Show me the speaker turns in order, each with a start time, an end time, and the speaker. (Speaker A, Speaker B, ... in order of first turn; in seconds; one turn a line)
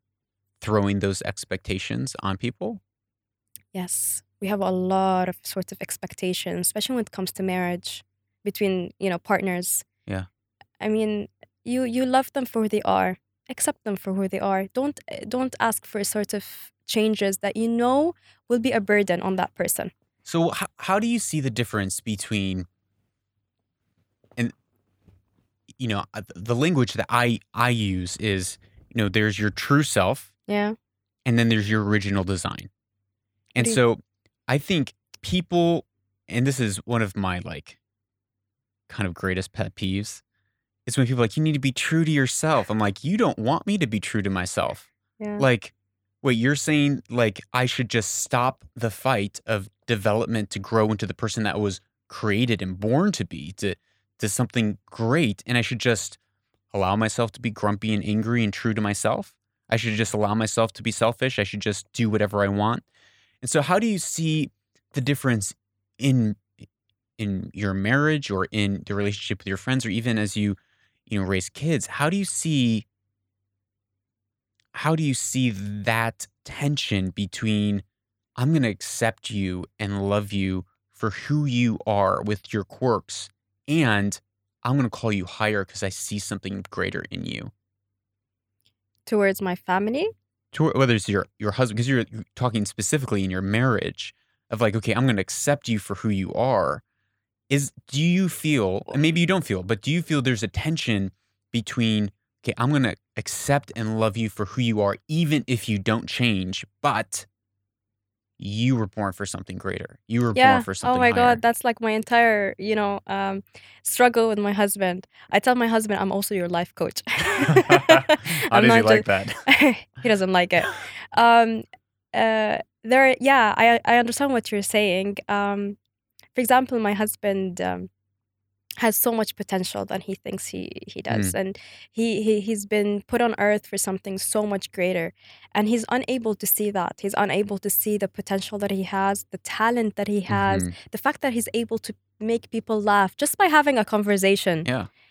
Speaker A: 0.6-2.8
Speaker B: 3.7-9.8
Speaker B: 10.8-19.9
Speaker A: 20.2-22.7
Speaker A: 25.8-30.3
Speaker B: 30.5-30.8
Speaker A: 31.2-32.7
Speaker A: 33.5-37.8
Speaker A: 38.9-40.2
Speaker A: 40.9-44.9
Speaker B: 45.2-45.5
Speaker A: 45.4-56.2
Speaker A: 56.7-62.9
Speaker A: 63.4-66.5
Speaker A: 67.2-70.6
Speaker A: 71.1-72.8
Speaker A: 74.7-77.8
Speaker A: 78.4-87.5
Speaker B: 89.1-90.1
Speaker A: 90.5-96.8
Speaker A: 97.5-107.3
Speaker A: 108.4-111.4
Speaker B: 110.3-125.8
Speaker A: 117.4-119.4
Speaker B: 126.3-127.9
Speaker B: 128.8-144.7
Speaker A: 140.3-140.7